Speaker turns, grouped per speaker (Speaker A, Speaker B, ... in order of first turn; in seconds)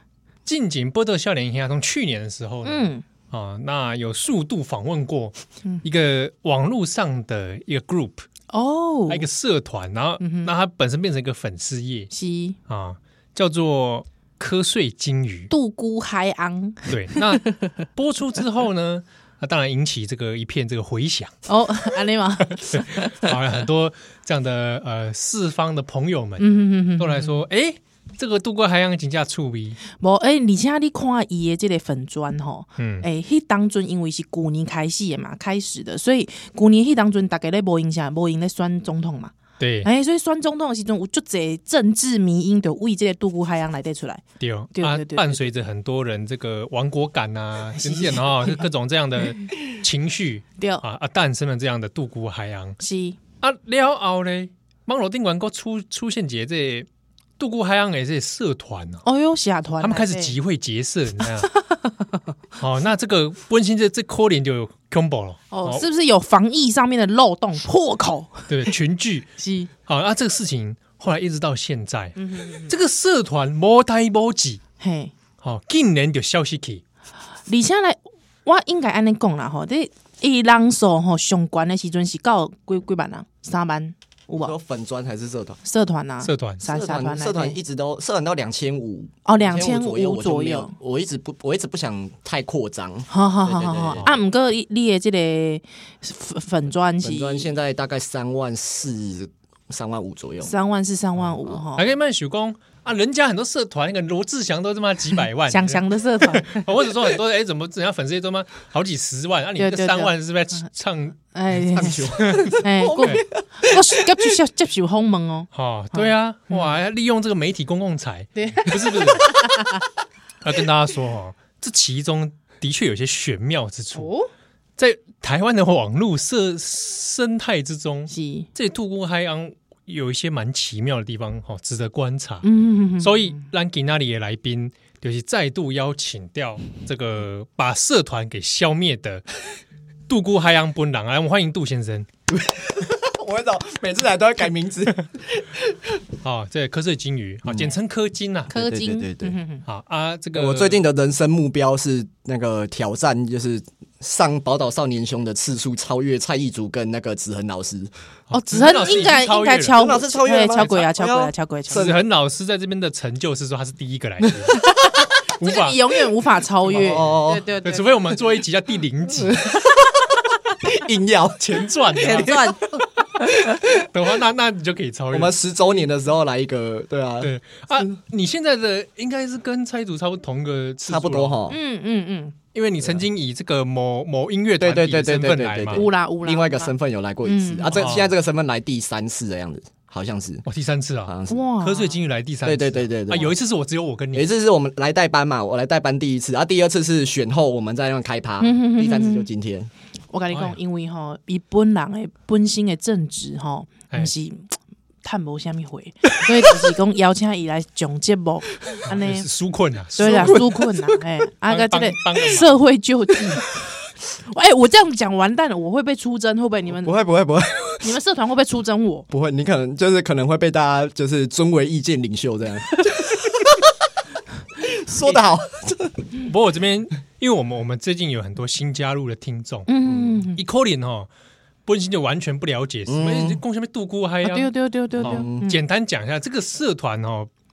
Speaker A: 0.5-8.2, 9.1-12.1, 12.7-15.5, 16.9-21.3, 22.6-29.8, 32.8-33.0, 39.6-39.9, 44.4-52.8, 53.4-56.9, 57.4-59.0, 59.8-61.5, 62.6-65.8, 68.5-69.3, 69.9-74.6, 75.4-76.8, 86.2-86.6, 101.8-111.2, 112.2-113.2, 115.5-119.5, 120.4-124.1, 124.8-132.5, 133.0-139.2, 140.1-142.1, 146.2-148.5, 149.7-150.8, 158.3-159.9, 160.6-160.9, 161.7-164.6, 165.4-165.8, 166.7-169.5, 171.4-172.7, 173.4-175.4, 177.2-181.4, 182.5-185.8, 187.8-188.2, 190.5-194.3, 200.3-200.6, 208.8-210.6, 211.5-212.6, 226.3-229.7, 230.3-231.1, 231.7-237.3
Speaker B: 2.6-3.0, 8.5-9.3, 10.2-10.5, 12.1-12.6, 15.5-17.7, 21.5-23.1, 26.4-27.4, 30.0-44.2, 44.8-45.5, 47.8-48.7, 50.6-50.8, 52.8-53.2, 59.0-60.4, 61.5-62.1, 65.5-68.7, 69.4-69.7, 72.2-72.8, 74.8-75.1, 77.5-84.5, 85.6-87.6, 89.3-90.7, 93.1-97.5, 100.4-101.9, 105.5-106.7, 109.6-110.1, 111.3-116.8, 118.4-119.8, 123.9-124.3, 128.1-128.5, 132.4-133.4, 148.5-149.6, 158.3-162.0, 164.5-168.2, 171.9-172.8, 181.5-182.4, 185.7-186.7, 187.2-187.9, 191.3-192.0, 198.4-199.3, 200.1-209.3, 210.0-213.5, 214.3-217.0, 217.8-219.1, 229.7-230.4, 234.2-235.6
Speaker C: 84.4-85.6, 86.7-94.2, 97.0-100.5, 111.6-114.3, 142.3-146.0, 147.5-147.7, 148.5-149.4, 150.3-157.9, 159.8-162.0, 166.7-167.5, 169.3-170.1, 170.6-171.4, 172.1-172.5, 175.1-177.9, 180.9-181.6, 184.6-190.4, 191.1-191.4, 192.4-193.4, 194.1-199.7, 210.0-210.6, 216.7-218.0, 219.1-223.7, 224.6-226.0, 229.8-230.2, 232.9-233.4, 235.0-235.5